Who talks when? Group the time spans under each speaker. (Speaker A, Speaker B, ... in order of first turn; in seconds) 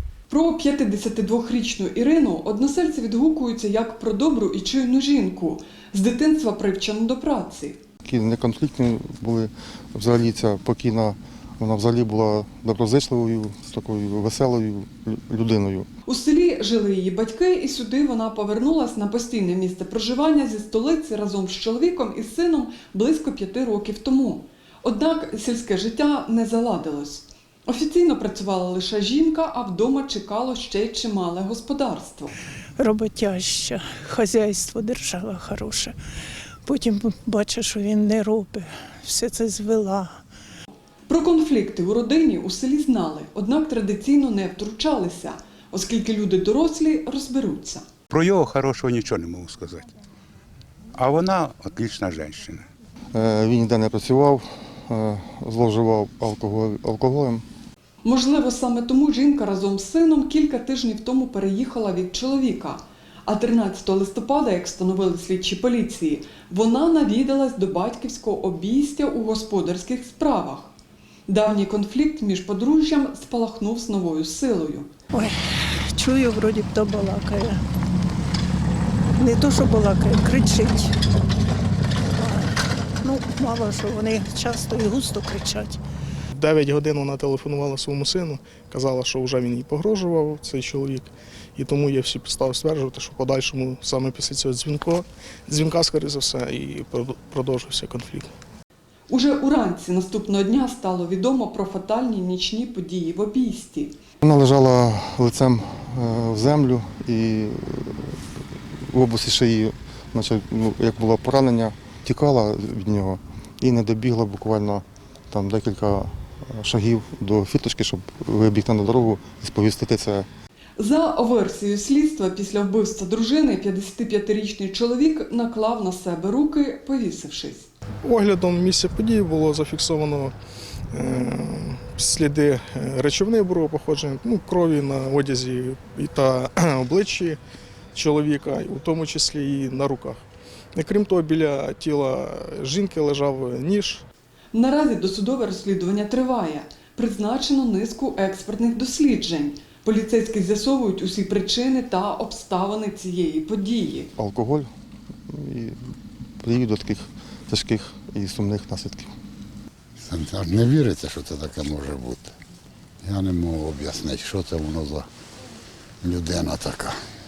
Speaker A: 0.3-7.8, 16.1-32.3, 41.1-47.9, 58.0-70.7, 71.3-74.9, 99.1-104.0, 120.8-127.7, 144.5-154.1
Speaker B: 8.0-15.9, 53.1-57.4, 104.2-108.2, 108.9-120.3, 154.2-154.7, 155.3-159.1
Speaker C: 32.8-36.0, 36.7-40.2, 75.9-77.6, 79.2-80.9, 82.2-85.8
Speaker D: 48.1-49.9, 50.9-52.7
Speaker E: 86.3-98.3, 128.0-130.3, 130.9-137.4, 137.9-140.2, 140.8-144.1
Speaker F: 160.0-162.3, 163.0-165.1, 166.0-166.9